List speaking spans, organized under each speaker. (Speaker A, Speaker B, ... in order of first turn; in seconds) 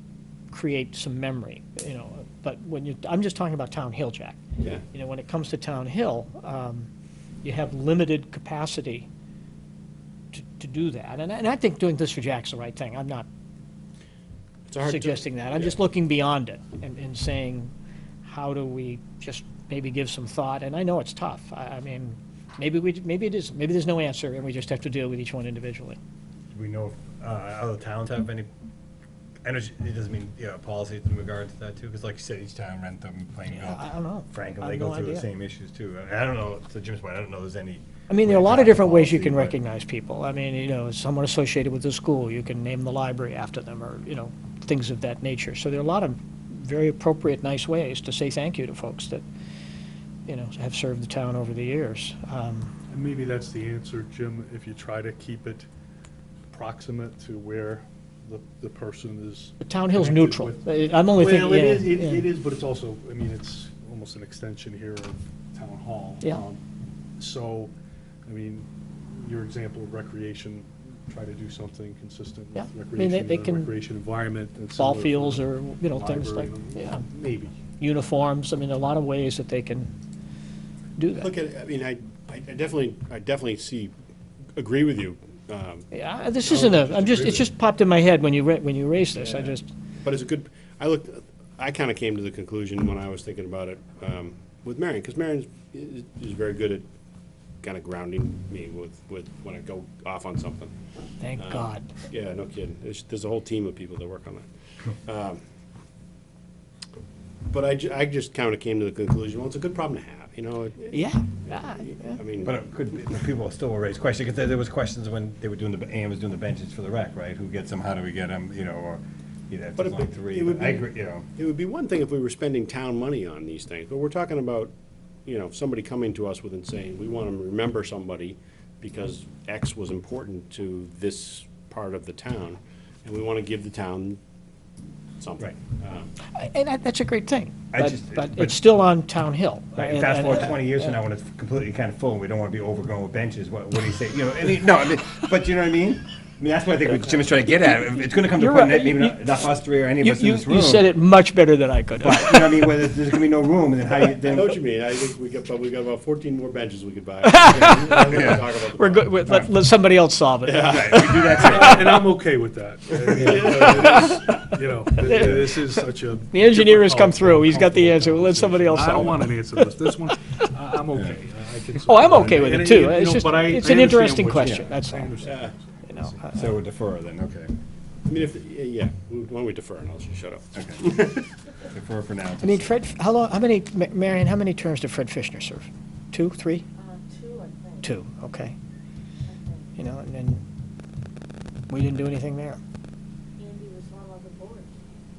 Speaker A: 0.5-4.4, 4.9-6.9, 7.4-9.1, 10.3-13.3, 14.8-17.7, 18.2-26.0, 33.5-35.2, 38.1-49.2, 50.3-52.7, 59.6-62.2, 72.6-73.7, 74.8-77.0, 77.8-79.9, 81.0-81.3, 85.9-89.7, 101.2-101.9, 110.9-112.2, 136.3-141.0, 148.3-152.7, 157.2-162.0, 163.2-164.4, 165.0-170.1, 171.8-175.1, 175.9-176.5, 182.4-186.7, 187.8-188.6, 189.8-190.4, 191.7-192.6
Speaker B: 4.6-4.8, 14.7-15.8, 81.1-83.9, 84.6-85.9, 86.5-87.5, 89.2-96.9, 97.6-100.7, 101.4-105.4, 107.5-112.6, 119.8-124.7, 125.2-134.2, 135.2-136.1, 154.1-159.3, 160.4-161.5, 175.2-175.5, 178.1-181.3
Speaker C: 26.5-28.5, 29.4-39.5, 112.4-121.2, 137.7-138.7, 139.8-150.9, 152.0-154.6, 158.0-158.4, 160.7-162.0, 168.8-169.1, 176.3-177.5, 180.6-180.8, 181.6-182.8
Speaker D: 52.9-55.7, 56.5-66.6, 67.2-67.7, 68.2-77.6, 161.5-176.2
Speaker E: 186.8-187.8, 189.3-189.6, 193.4-194.7